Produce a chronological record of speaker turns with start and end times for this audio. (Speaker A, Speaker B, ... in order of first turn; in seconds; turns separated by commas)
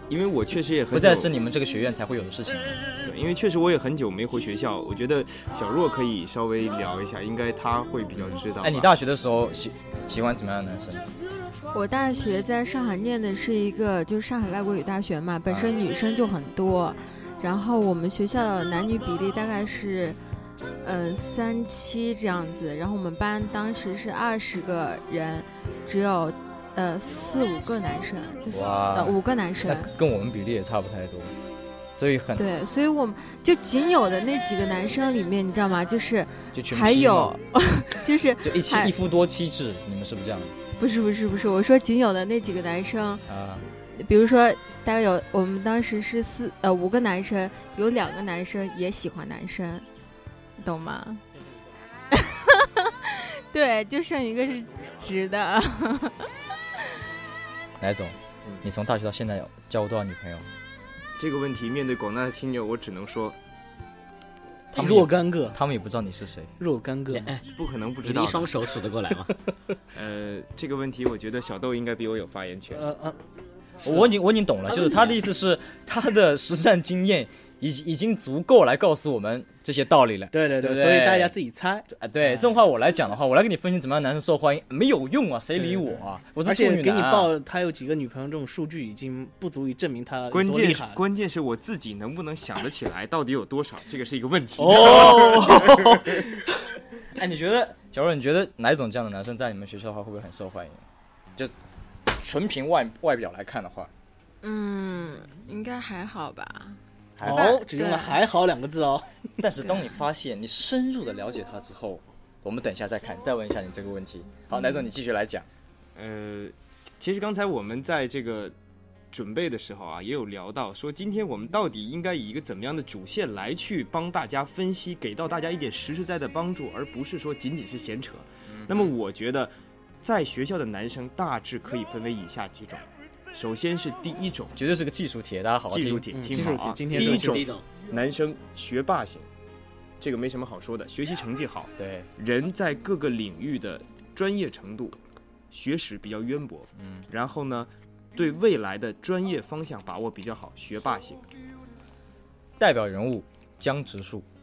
Speaker A: 0.1-1.3, Speaker B: 0.9-2.9, Speaker A: 3.0-8.9, Speaker B: 8.6-11.1, Speaker C: 11.7-20.2, Speaker C: 20.8-29.9, Speaker B: 28.5-31.3, Speaker B: 31.9-32.4, Speaker C: 32.4-38.9, Speaker B: 36.5-37.4, Speaker B: 38.4-40.5, Speaker C: 40.8-43.2, Speaker B: 43.3-43.6, Speaker C: 43.9-49.9, Speaker C: 50.6-51.2, Speaker C: 52.1-56.3, Speaker B: 57.8-60.5, Speaker A: 61.2-63.4, Speaker B: 64.7-66.5, Speaker D: 64.8-65.6, Speaker D: 66.6-67.3, Speaker E: 67.1-67.5, Speaker A: 67.5-68.5, Speaker E: 68.0-69.3, Speaker A: 69.9-72.9, Speaker D: 72.7-73.2, Speaker B: 73.8-81.3, Speaker E: 74.7-75.2, Speaker D: 80.3-82.5, Speaker B: 81.9-87.3, Speaker D: 85.6-91.0, Speaker A: 90.3-96.4, Speaker D: 94.6-96.6, Speaker B: 97.1-100.8, Speaker B: 102.1-103.9, Speaker C: 104.4-108.2, Speaker B: 107.2-107.6, Speaker D: 107.2-109.1, Speaker B: 109.4-115.5, Speaker A: 116.0-118.5, Speaker A: 119.1-134.6, Speaker B: 128.5-128.9, Speaker B: 134.6-136.1, Speaker A: 135.7-139.3, Speaker D: 136.1-137.5, Speaker E: 136.9-137.7, Speaker A: 140.0-145.0, Speaker B: 141.8-142.1, Speaker A: 145.5-151.2, Speaker B: 146.8-147.1, Speaker B: 152.6-154.2